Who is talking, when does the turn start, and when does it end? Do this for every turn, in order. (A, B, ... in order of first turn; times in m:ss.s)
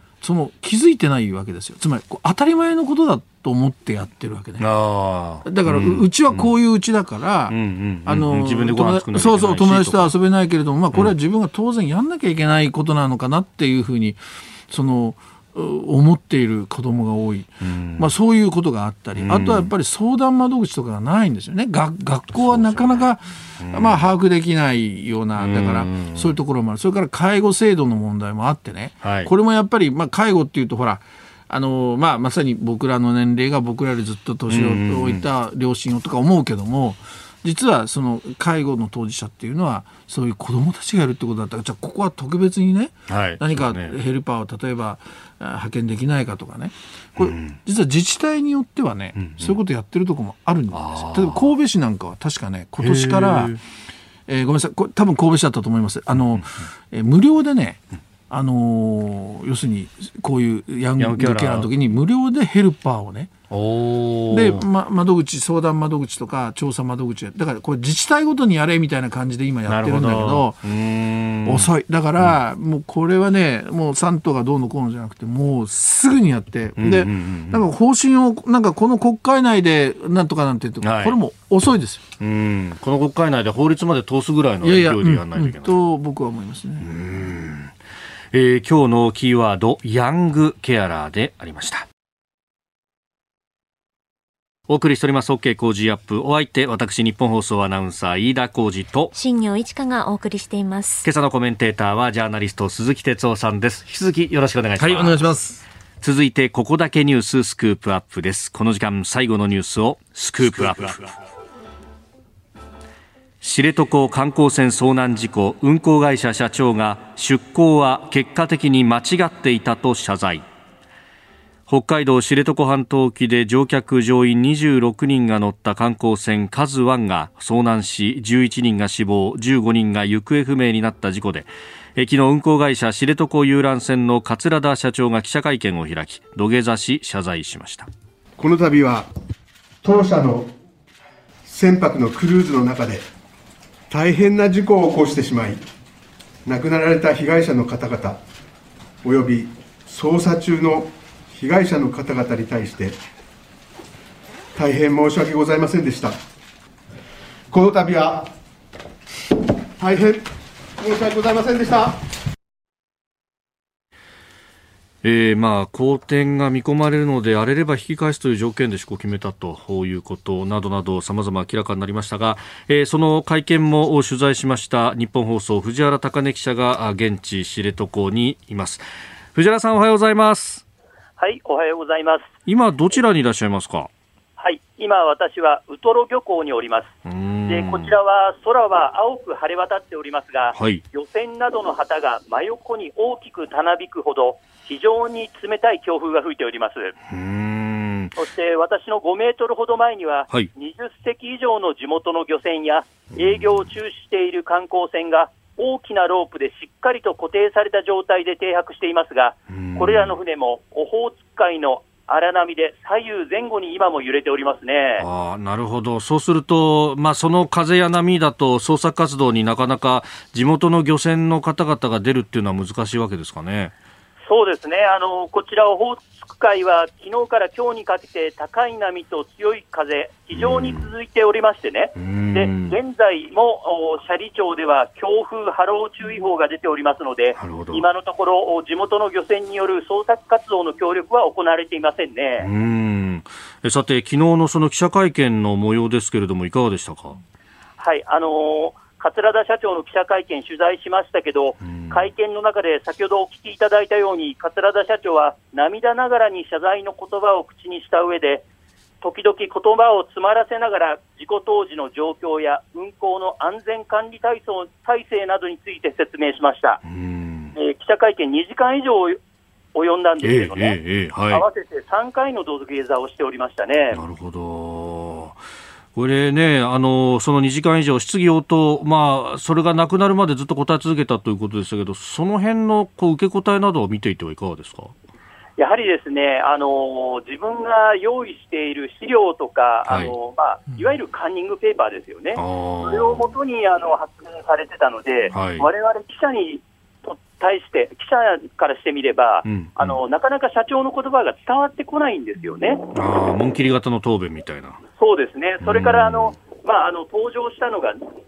0:00.2-0:04.7 A
0:04.6-0:06.5 B
0:05.4-0:53.6 A
0:07.5-0:10.1 B
0:17.6-0:18.1 B
0:19.2-0:19.7 B
0:22.3-0:23.1 B
0:23.6-0:24.1 B
0:25.4-0:26.3 B
0:29.0-0:29.3 B
0:34.5-0:35.3 B
0:43.1-0:44.0 B
0:47.2-0:47.6 B
0:49.2-0:49.6 B
0:50.7-0:51.5 B
0:52.8-0:53.6 B
0:54.3-1:03.3 A
1:01.0-1:01.7 B
1:03.5-1:04.7 B
1:04.3-1:10.6 A
1:09.7-1:12.4 B
1:11.4-1:22.0 A
1:16.8-1:17.6 B
1:20.8-1:21.2 B
1:22.2-1:25.8 B
1:24.6-1:26.9 A
1:26.8-1:27.7 B
1:28.3-1:31.8 B
1:34.7-1:39.1 B
1:39.1-1:41.0 C
1:41.0-1:45.2 B
1:44.8-1:45.6 A
1:46.0-1:51.1 B
1:53.4-2:00.4 B
2:01.7-2:17.9 B
2:18.4-2:19.1 D
2:19.8-2:20.5 D
2:21.4-2:23.0 D
2:23.9-2:25.6 D
2:26.4-2:28.2 D
2:29.0-2:33.0 D
2:34.5-2:36.2 D
2:37.5-2:38.3 D
2:39.8-2:42.0 D
2:45.0-3:00.6 B
3:01.2-3:02.3 E
3:02.4-3:03.9 B
3:04.4-3:06.9 E
3:07.0-3:07.9 B
3:07.5-3:16.9 E
3:10.5-3:10.8 B
3:17.1-3:18.2 B
3:18.2-3:35.0 E
3:23.2-3:23.7 B
3:29.5-3:30.2 B
3:35.0-3:43.7 B
3:44.2-4:02.5 E
3:50.3-3:50.9 B
3:52.0-3:52.8 B
3:57.3-3:57.8 B
4:02.4-4:07.2 B
4:07.8-4:18.4 E
4:11.6-4:12.1 B
4:19.0-4:26.8 E
4:26.8-4:27.5 B
4:27.5-4:29.2 E
4:29.7-4:30.8 E
4:30.2-4:31.4 B
4:31.3-4:34.0 E
4:33.9-4:35.4 B
4:35.9-4:44.9 B
4:45.6-5:02.8 E
4:49.8-4:50.1 B
4:52.3-4:53.3 B
4:55.3-4:55.7 B
4:59.4-5:00.0 B
5:02.9-5:04.8 B
5:05.0-5:08.0 E
5:05.6-5:06.3 B